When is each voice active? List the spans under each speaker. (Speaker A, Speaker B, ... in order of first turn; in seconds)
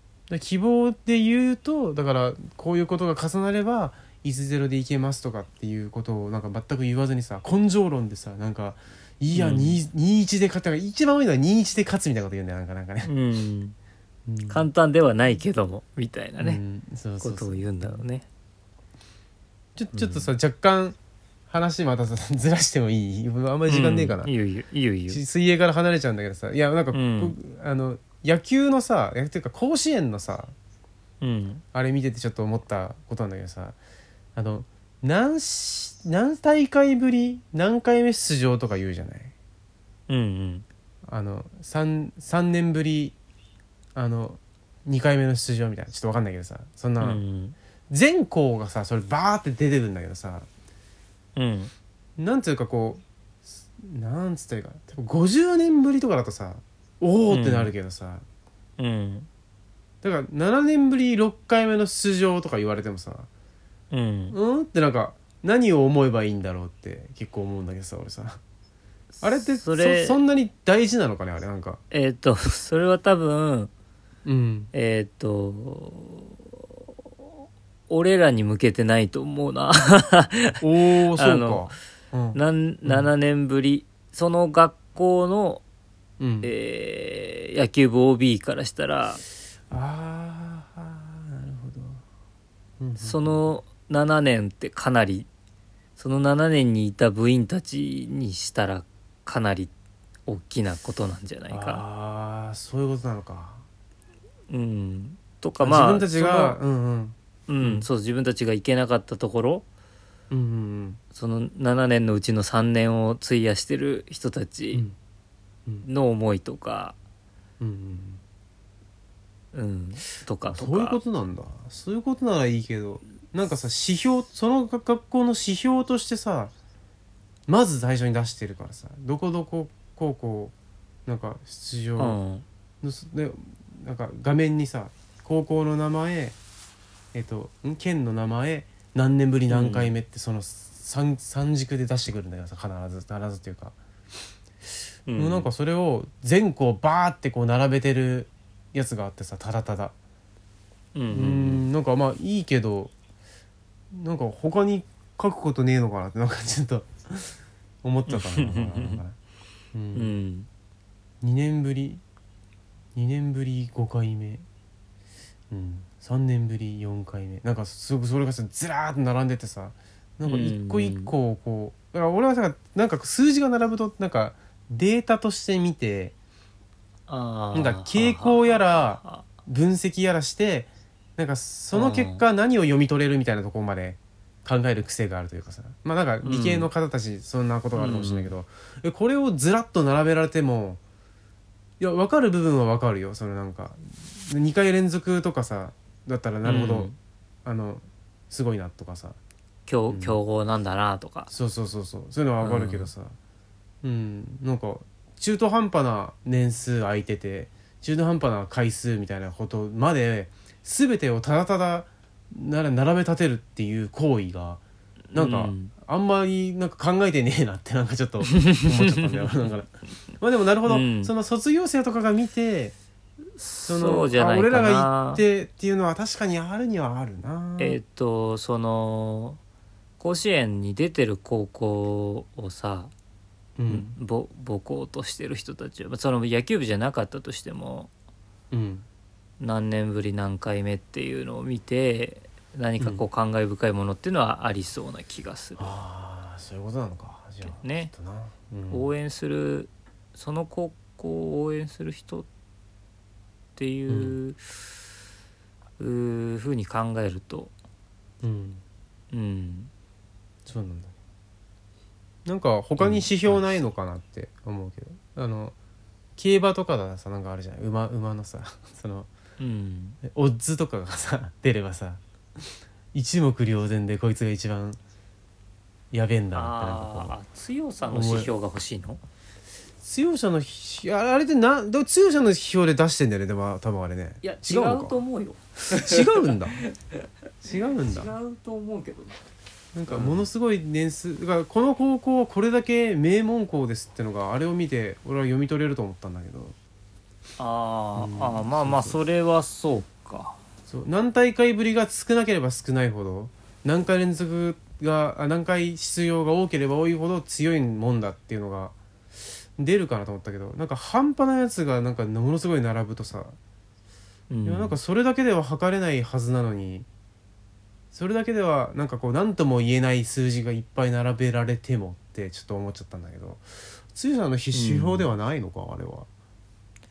Speaker A: 0.3-13.1, 14.2-14.7, 16.4-18.0, 19.8-21.0, 21.5-24.3, 25.1-30.5, 31.7-33.8, 34.4-39.3, 41.1-43.1, 43.9-47.2, 47.9-50.5, 52.2-58.2, 60.0-63.3, 64.3-68.4, 69.2-71.8, 74.2-74.7, 80.6-83.1, 86.2-86.5, 89.7-92.0, 92.8-93.4, 101.5-103.6, 105.6-107.9, 110.3-111.0, 117.6-118.2, 120.5-126.5, 127.5-130.5, 131.1-132.2, 132.8-136.3, 137.1-143.8, 145.1-149.9, 151.1-152.9, 153.9-159.2, 159.7-160.1, 161.2-162.0, 162.9-164.4, 165.5-176.1, 177.5-190.8, 191.8-196.9, 197.4-199.2, 199.9-200.2, 201.3-203.1, 203.8-214.6, 215.1-222.7, 223.7-227.8, 233.6-233.9, 238.5-238.8, 245.6-248.9, 253.9-254.2, 258.2-258.6, 260.4-260.9, 262.2-265.5, 266.2-269.1, 270.0-272.0, 272.9-274.8, 275.9-277.1, 277.9-278.3, 279.8-285.0, 285.7-286.6, 287.4-288.1, 289.7-296.6, 297.9-299.0, 300.7-308.8, 309.6-313.4, 314.4-316.9, 317.9-326.1
Speaker B: 9.3-9.8, 13.0-13.8, 14.5-16.6, 17.2-18.2, 19.9-20.3, 23.7-25.2, 26.9-27.4, 31.2-31.6, 40.1-40.6, 47.0-47.5, 51.4-51.7, 57.3-57.7, 58.8-59.3, 63.9-64.4, 69.1-70.2, 71.9-73.7, 74.7-76.3, 77.9-80.6, 81.2-81.7, 82.3-85.6, 86.4-89.2, 93.0-95.3, 96.0-99.7, 100.2-101.8, 104.5-106.6, 107.5-109.7, 111.1-114.8, 115.8-117.0, 119.5-121.0, 132.0-132.4, 139.5-139.9, 145.1-145.5, 150.9-151.7, 158.1-159.0, 159.9-160.5, 170.2-171.1, 177.1-179.3, 181.7-182.2, 186.2-186.7, 187.7-188.3, 196.4-196.9, 199.7-201.3, 202.4-202.9, 215.1-215.7, 218.3-219.4, 220.7-221.1, 223.4-225.2, 227.6-229.4, 230.0-232.9, 233.7-237.9, 239.4-245.8, 247.4-247.9, 248.7-252.3, 253.6-254.4, 255.8-257.5, 259.1-259.7, 262.8-263.6, 269.4-270.0, 276.3-279.0, 284.2-287.0, 287.7-289.2, 289.9-290.3, 297.4-300.4, 314.3-314.8, 324.5-325.1